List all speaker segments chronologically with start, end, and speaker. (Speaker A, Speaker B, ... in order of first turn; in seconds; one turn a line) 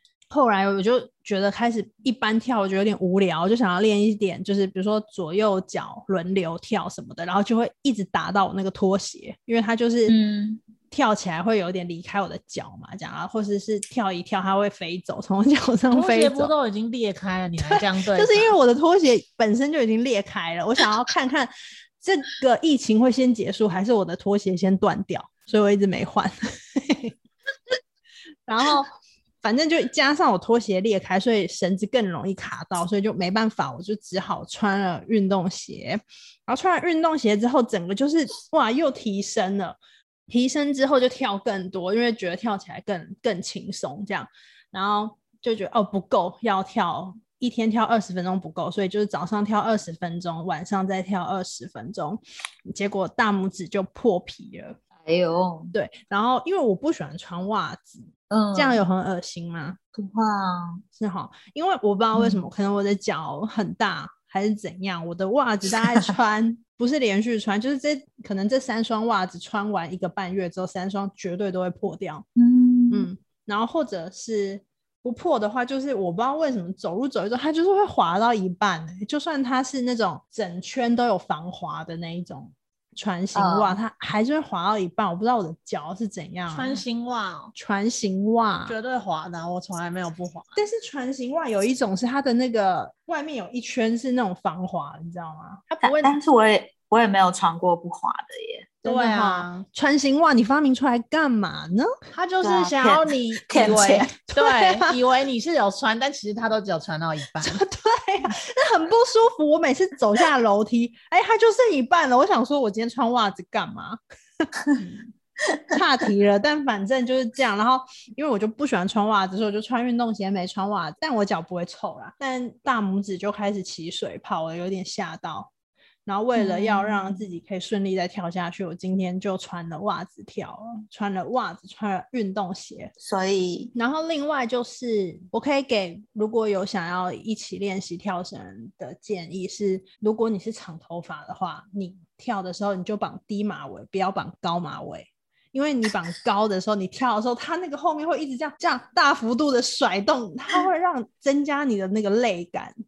Speaker A: 0.3-10.2
Speaker B: 10.1-10.6
Speaker A: 10.9-16.5
Speaker C: 15.9-18.5
Speaker A: 17.7-27.1
Speaker A: 28.5-28.9
Speaker A: 29.4-39.8
Speaker A: 40.3-54.8
Speaker B: 55.0-55.7
Speaker A: 55.7-59.8
Speaker B: 58.3-58.8
Speaker B: 59.9-60.8
Speaker A: 61.0-72.2
Speaker B: 62.1-62.4
Speaker B: 72.3-73.1
Speaker A: 72.9-86.8
Speaker B: 83.3-83.8
Speaker C: 86.5-87.5
Speaker A: 87.5-88.8
Speaker C: 88.7-90.6
Speaker A: 90.5-95.8
Speaker C: 95.8-96.1
Speaker B: 95.8-98.7
Speaker C: 98.8-99.7
Speaker A: 98.8-101.9
Speaker C: 102.1-107.6
Speaker B: 102.4-104.1
Speaker A: 104.3-105.0
Speaker A: 107.4-115.1
Speaker A: 115.7-125.5
Speaker A: 126.0-132.9
Speaker B: 126.3-127.2
Speaker B: 133.0-133.7
Speaker A: 133.7-152.8